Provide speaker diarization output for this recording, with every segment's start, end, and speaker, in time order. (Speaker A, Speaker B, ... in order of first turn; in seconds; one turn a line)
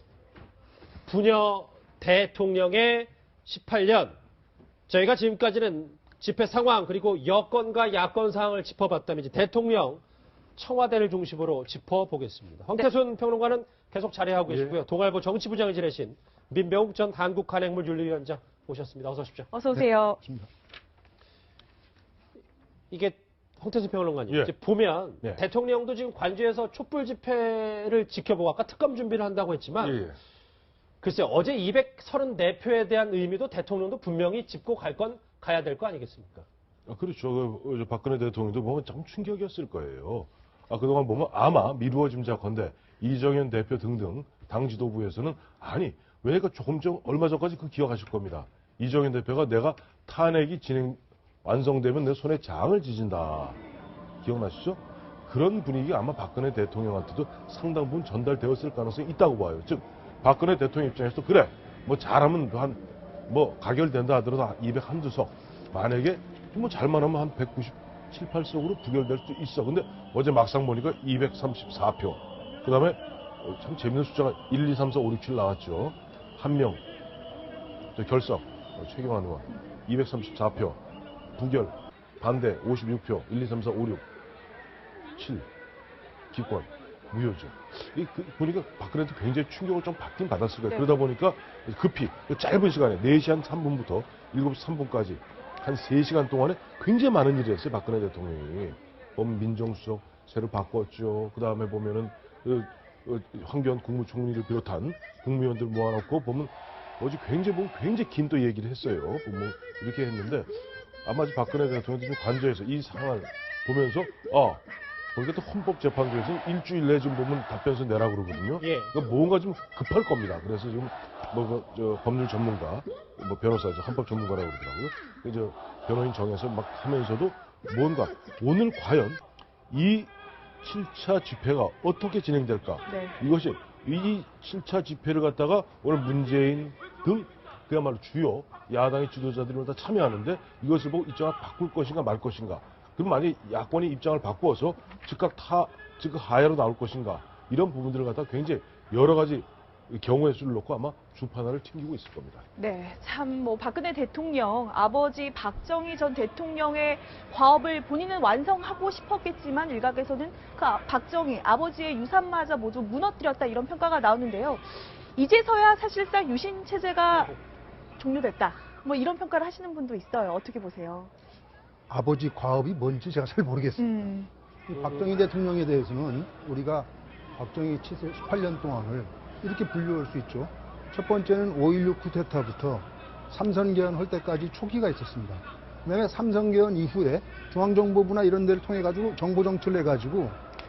Speaker A: 1.1-4.2
Speaker A: 4.9-10.0
Speaker A: 10.6-19.5
Speaker B: 14.5-14.8
Speaker C: 19.5-20.2
Speaker D: 19.7-20.5
Speaker A: 22.9-30.0
Speaker B: 24.3-24.5
Speaker B: 29.8-30.1
Speaker A: 31.0-36.5
Speaker B: 36.9-53.6
Speaker B: 54.2-76.8
Speaker B: 78.0-80.8
Speaker B: 81.3-84.0
Speaker B: 85.2-85.5
Speaker B: 86.3-110.5
Speaker B: 111.0-114.6
Speaker B: 115.1-152.4
Speaker A: 118.6-118.9
Speaker C: 132.9-133.2
Speaker C: 152.6-167.3
Speaker A: 167.1-167.4
Speaker C: 168.0-171.1
Speaker D: 171.9-174.0
Speaker C: 173.8-174.3
Speaker D: 174.7-190.4
Speaker A: 174.7-175.1